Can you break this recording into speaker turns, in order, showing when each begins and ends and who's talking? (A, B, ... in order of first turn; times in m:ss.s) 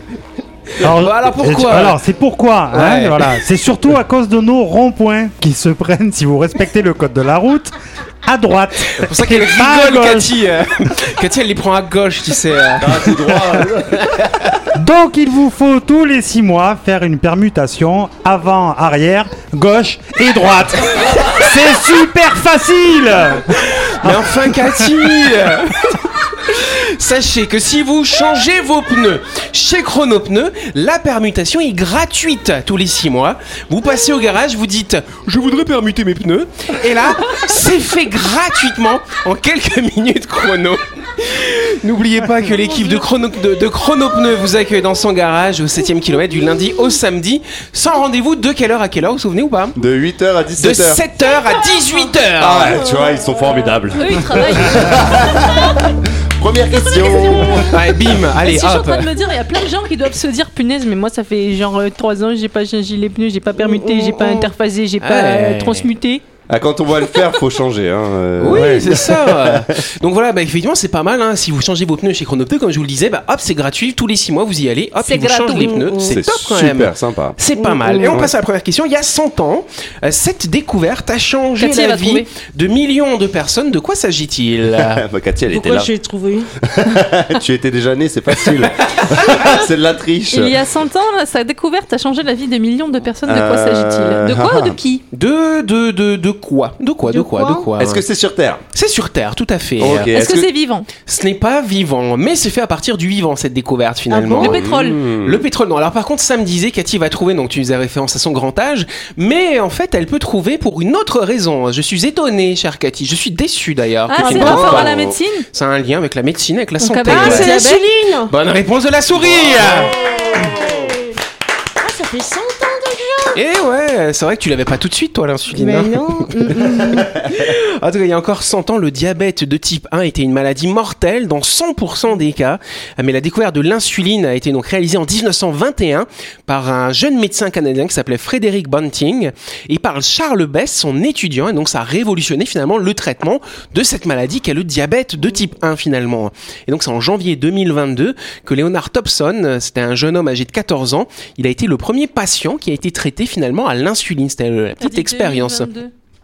0:00.8-0:02.0 A
0:00.8-0:10.3 B
0:02.7-0:03.3 A
0:08.9-0:13.2 A
0:12.8-0:14.4 C
0:14.7-0:25.3 B
0:23.6-0:49.8 A
0:49.8-0:51.0 C
0:50.6-0:52.8 A
0:52.4-0:58.2 C
0:53.9-0:55.4 D
0:57.3-0:57.6 E
0:57.7-0:59.1 A
0:58.4-1:06.2 D
1:03.6-1:04.4 E
1:05.0-1:05.9 A
1:06.5-1:09.8 C
1:08.4-1:25.0 A
1:15.0-1:15.9 D
1:15.6-1:16.2 E
1:16.1-1:17.4 C
1:17.6-1:18.2 E
1:18.0-1:18.3 C
1:21.6-1:22.3 D
1:24.8-1:25.9 C
1:25.5-1:26.5 E
1:26.6-1:30.6 C
1:28.6-1:29.5 A
1:30.3-1:35.0 D
1:33.2-1:34.8 C
1:35.1-1:38.0 A
1:37.1-1:37.7 E
1:37.8-1:38.6 C
1:38.7-1:40.1 A
1:39.8-1:40.5 C
1:40.1-1:40.9 D
1:41.0-1:54.9 A
1:44.1-1:44.5 E
1:44.4-1:45.4 C
1:44.4-1:45.0 D
1:54.1-1:55.5 D
1:54.2-1:55.2 C
1:54.3-1:54.6 E
1:55.5-1:57.6 A
1:56.8-1:57.8 D
1:57.0-1:58.3 E
1:58.3-1:59.9 A
1:59.2-2:00.9 C
1:59.9-2:01.1 E
2:01.8-2:03.4 E
2:03.4-2:35.7 A
2:05.5-2:07.1 E
2:34.8-2:35.9 D